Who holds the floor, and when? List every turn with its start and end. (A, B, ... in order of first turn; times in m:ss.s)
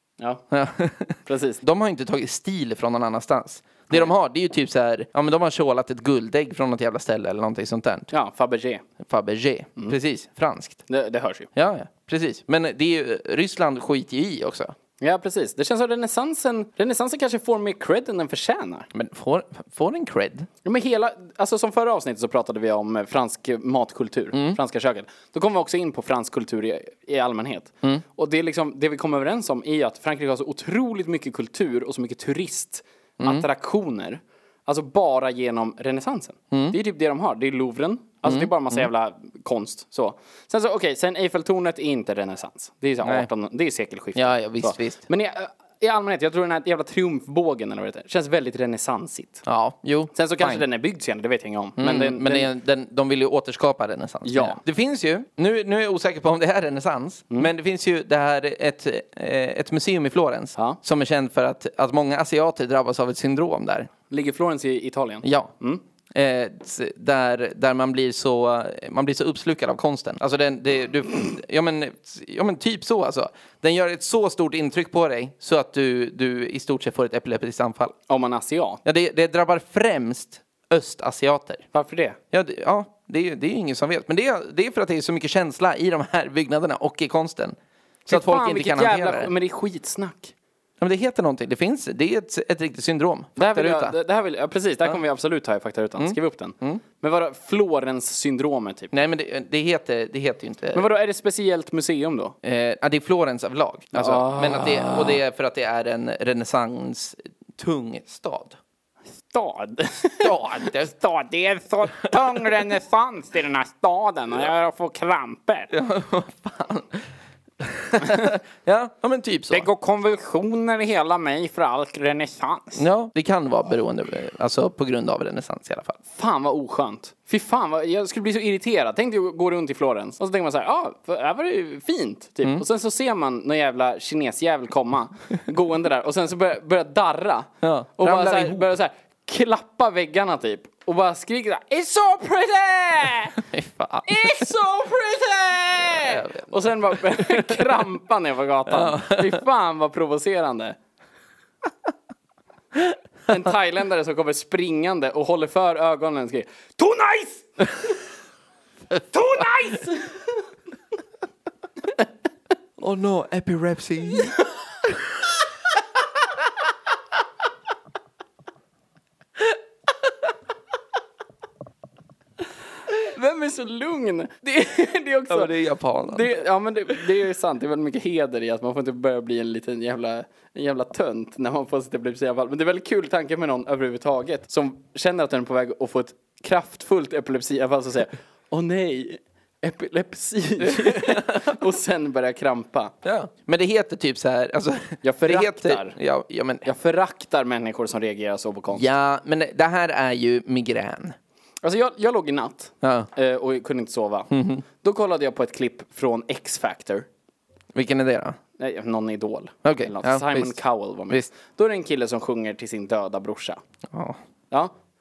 0:00.5-0:08.1 A
0:01.3-0:01.6 B
0:08.1-0:08.8 B
0:09.0-0:10.8 A
0:10.9-0:11.5 B
0:11.5-0:14.7 A
0:15.0-0:18.9 B
0:18.9-0:20.5 A
0:20.6-0:49.4 B
0:24.3-0:24.6 A
0:33.2-0:33.4 A
0:36.5-0:36.8 A
0:38.3-0:38.9 A
0:43.0-0:43.3 A
0:44.1-0:45.0 A
0:49.4-0:50.6 A
0:50.1-0:52.5 B
0:51.8-1:03.9 A
0:54.2-0:54.6 B
1:04.1-1:05.8 B
1:05.2-1:05.5 A
1:06.1-1:17.9 A
1:18.1-1:18.8 B
1:18.8-1:21.6 A
1:21.7-1:22.2 B
1:22.3-1:27.6 A
1:28.1-1:29.3 A
1:28.1-1:30.3 B
1:30.8-1:34.0 A
1:33.4-1:38.9 B
1:36.0-1:36.8 A
1:38.9-1:40.9 A
1:40.7-1:42.4 B
1:42.4-1:48.6 A
1:43.9-1:45.2 B
1:49.3-1:55.7 B
1:50.2-1:50.9 A
1:52.0-1:52.5 A
1:55.7-1:57.1 A
1:57.6-1:59.7 A
1:59.5-2:02.8 B
2:02.8-2:06.0 A
2:06.1-2:23.4 B
2:17.6-2:18.7 A
2:23.4-2:24.4 A
2:24.1-2:30.8 B
2:25.9-2:27.6 A
2:28.7-2:29.4 A
2:33.3-2:37.9 B
2:39.1-2:40.4 B
2:42.8-2:45.0 A
2:52.9-2:55.5 B
2:55.3-2:56.3 A
2:56.0-3:12.9 B
3:10.7-3:11.6 A
3:13.0-3:16.7 A
3:15.0-3:16.0 B
3:16.6-3:18.9 B
3:18.7-3:21.2 A
3:21.6-3:27.1 B
3:22.8-3:23.1 A
3:24.3-3:24.6 A
3:27.7-3:28.4 A
3:28.6-3:33.6 B
3:29.6-3:30.6 A
3:33.9-3:34.2 A